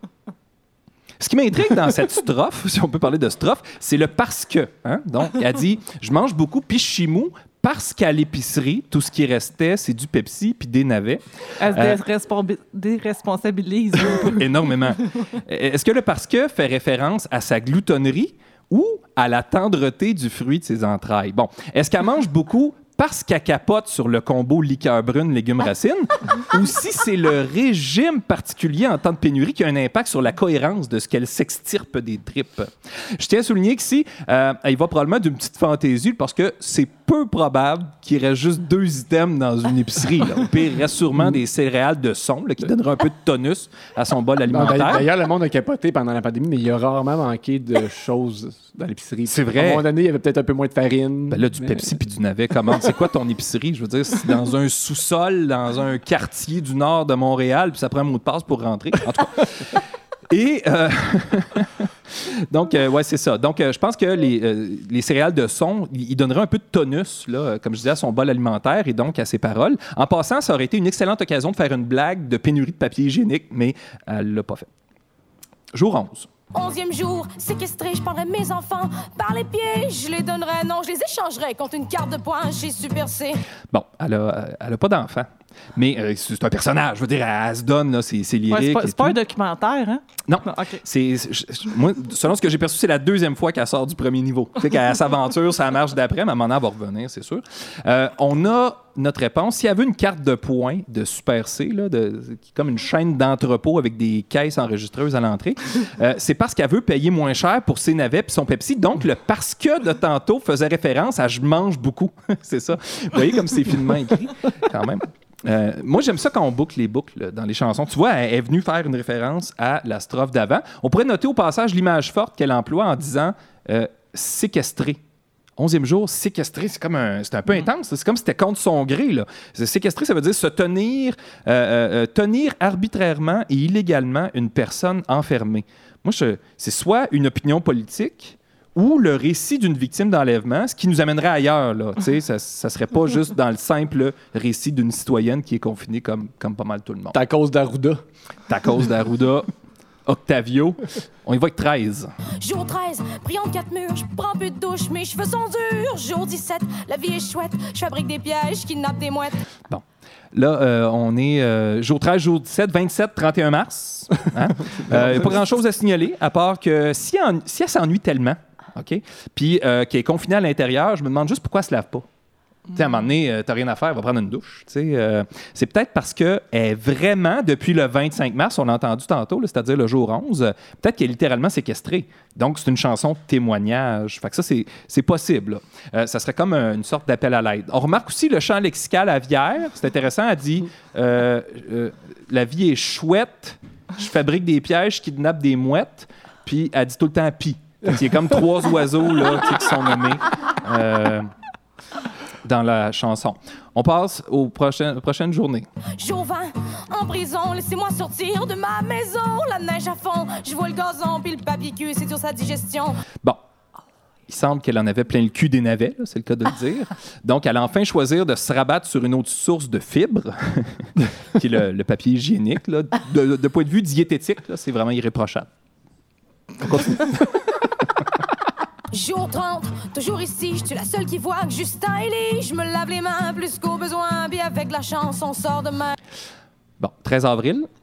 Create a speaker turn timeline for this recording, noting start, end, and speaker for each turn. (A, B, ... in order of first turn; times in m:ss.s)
0:01.2-0:12.0 A
0:11.6-0:14.4 B
0:14.1-0:45.1 A
0:44.5-0:52.0 C
0:49.3-0:49.8 A
0:51.3-1:14.7 A
1:15.7-1:16.3 A
1:16.5-1:23.4 D
1:23.7-1:29.2 A
1:28.5-1:30.8 B
1:30.3-2:05.0 A
2:05.6-2:27.2 A
2:27.1-2:28.0 C
2:28.5-2:29.5 A
2:30.1-2:32.1 A
2:32.4-2:39.4 D
2:40.3-2:52.0 A
2:44.8-2:45.4 C
2:52.7-3:21.3 A
3:22.4-3:25.7 A
3:26.0-3:33.0 D
3:34.3-3:45.5 A
3:46.6-3:47.2 A
3:48.9-3:56.0 D
3:56.8-3:57.7 A